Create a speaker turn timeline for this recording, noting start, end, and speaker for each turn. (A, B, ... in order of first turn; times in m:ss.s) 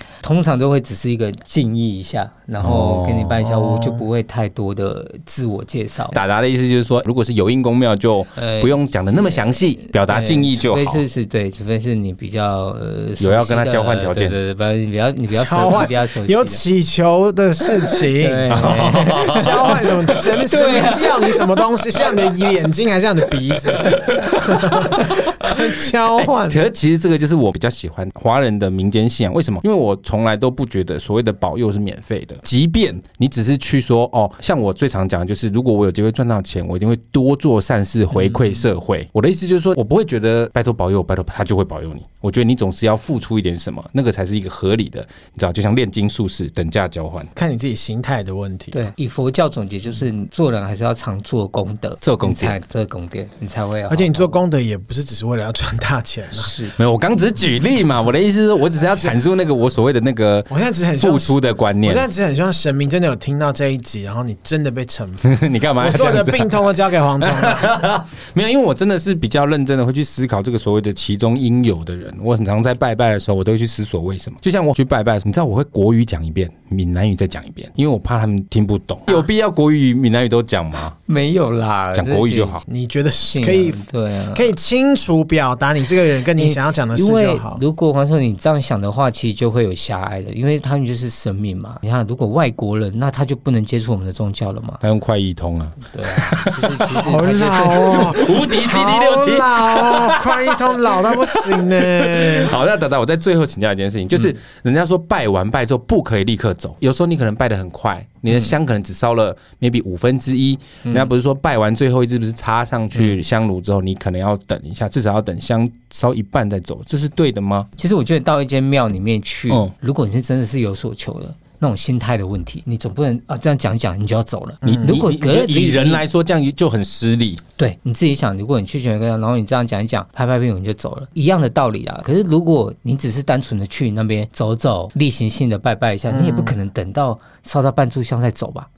0:00.2-0:06.2 A
0:02.6-0:03.4 B
0:03.4-0:04.0 C
0:06.1-0:11.0 B
0:08.4-0:16.6 A
0:13.2-0:14.4 B
0:15.3-0:26.6 C
0:18.2-0:21.4 A
0:18.5-0:20.2 B
0:23.7-0:47.3 B
0:47.4-0:48.8 C
0:48.7-0:54.4 A
0:52.0-0:52.6 B
0:53.9-0:56.5 C
0:56.3-0:56.7 A
0:56.8-1:02.1 B
1:00.5-1:07.7 C
1:05.2-1:06.7 B
1:07.2-1:21.0 B
1:21.1-1:22.6 A
1:22.0-1:22.6 B
1:22.7-1:27.6 C
1:23.2-1:24.5 A
1:26.4-1:34.8 A
1:34.8-1:37.2 B
1:35.8-1:38.2 A
1:37.0-1:42.5 C
1:38.0-1:57.7 B
1:50.8-1:51.1 A
1:57.8-2:06.0 A
2:04.6-2:07.4 B
2:04.6-2:04.9 C
2:07.6-2:18.7 A
2:16.1-2:16.6 C